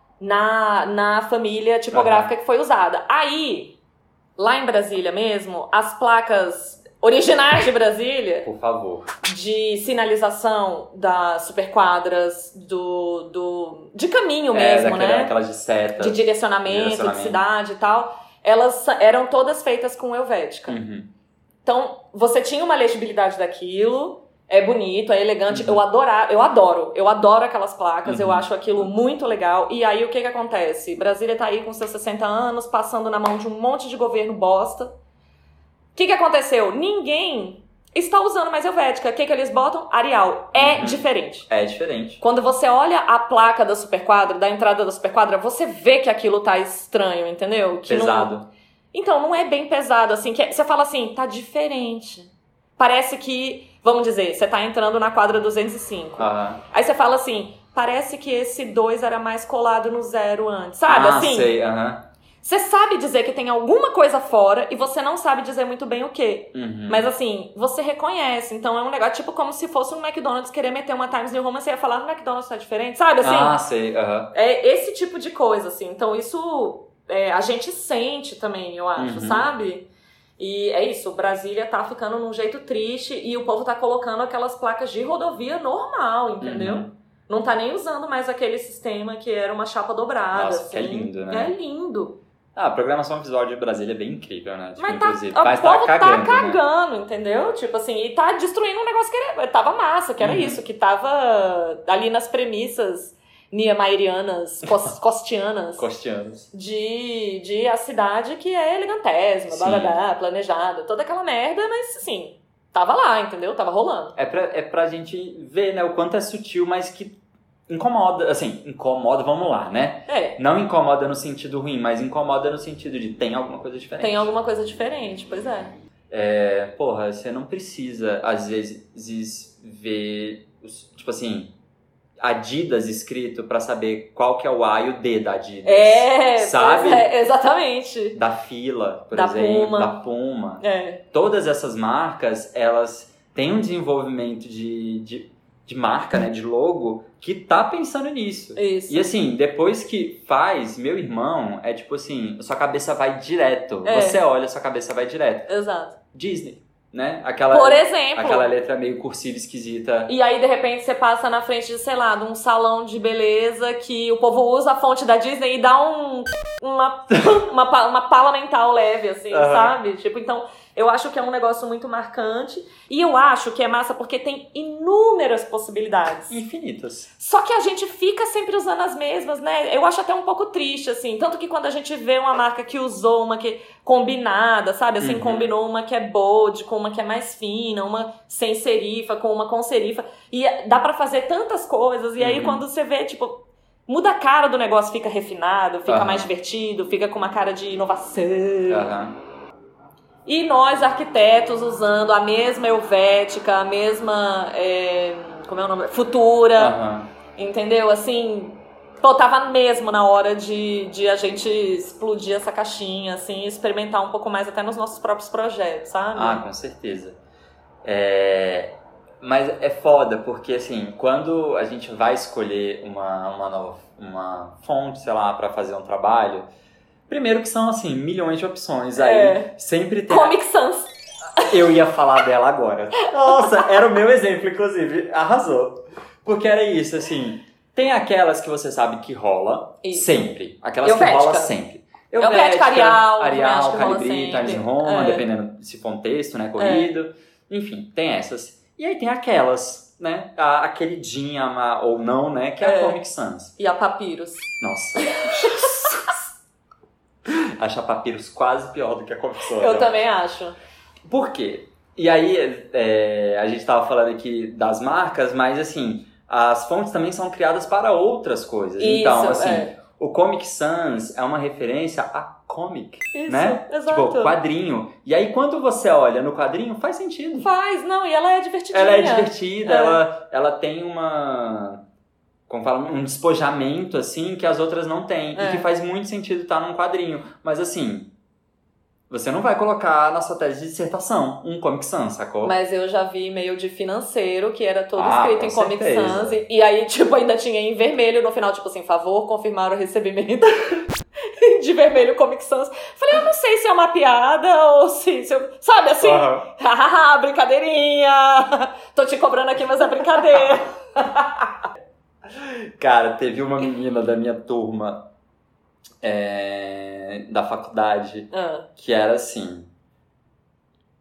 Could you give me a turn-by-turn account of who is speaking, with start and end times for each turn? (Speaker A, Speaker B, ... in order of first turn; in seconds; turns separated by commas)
Speaker A: 0.2-3.8, Speaker B: 1.9-2.3, Speaker A: 4.4-8.5, Speaker B: 8.4-9.1, Speaker A: 9.2-15.3, Speaker B: 14.5-17.4, Speaker A: 16.0-20.8, Speaker B: 20.7-21.1, Speaker A: 21.6-34.9, Speaker B: 25.5-25.8, Speaker B: 28.0-28.9, Speaker A: 35.9-41.5, Speaker B: 40.5-42.2, Speaker A: 42.2-48.3, Speaker B: 47.9-48.5, Speaker A: 48.9-61.5, Speaker B: 56.2-56.6, Speaker B: 60.9-62.0, Speaker A: 62.4-73.6, Speaker B: 66.5-67.1, Speaker B: 73.2-74.3, Speaker A: 74.3-79.9, Speaker B: 79.0-79.5, Speaker A: 80.4-92.2, Speaker B: 86.4-86.9, Speaker B: 90.3-91.5, Speaker B: 92.5-96.6, Speaker A: 94.8-105.9, Speaker B: 100.2-100.6, Speaker B: 105.8-106.5, Speaker A: 106.5-114.1, Speaker B: 109.5-110.0, Speaker B: 114.2-117.2, Speaker B: 117.7-124.3, Speaker A: 120.1-120.4, Speaker A: 124.0-125.7, Speaker B: 126.1-131.5, Speaker B: 132.2-137.1, Speaker A: 135.6-138.2, Speaker B: 138.1-155.5, Speaker A: 139.1-140.0, Speaker A: 140.6-141.0, Speaker A: 148.6-149.1, Speaker A: 153.8-154.2, Speaker A: 155.5-156.0, Speaker B: 156.1-160.1, Speaker A: 157.5-158.5, Speaker A: 160.1-176.4, Speaker B: 169.3-169.8, Speaker B: 176.3-177.1, Speaker A: 177.2-198.9, Speaker B: 185.0-185.5, Speaker B: 192.2-192.6, Speaker B: 195.9-196.3, Speaker B: 198.7-199.2, Speaker A: 200.2-206.8, Speaker B: 206.6-207.1, Speaker A: 207.3-216.4, Speaker B: 216.1-217.2, Speaker B: 217.8-226.5, Speaker B: 227.1-230.4, Speaker A: 228.9-229.5, Speaker A: 230.1-231.5, Speaker B: 231.5-253.5, Speaker A: 233.3-233.6, Speaker A: 239.8-241.6, Speaker A: 242.2-245.2, Speaker A: 246.6-247.0, Speaker A: 252.6-253.0, Speaker A: 253.6-254.4, Speaker B: 254.6-256.0, Speaker A: 255.0-255.8, Speaker B: 257.2-260.0, Speaker A: 259.5-260.6, Speaker B: 261.1-277.5, Speaker A: 268.8-269.7, Speaker A: 273.1-274.4, Speaker A: 277.4-280.0, Speaker B: 278.7-281.8, Speaker B: 282.5-288.1, Speaker A: 285.3-285.7, Speaker B: 289.1-292.5, Speaker A: 292.4-311.5, Speaker B: 294.9-296.4, Speaker B: 306.0-306.5, Speaker B: 312.3-315.1, Speaker B: 316.0-319.7, Speaker A: 318.3-318.7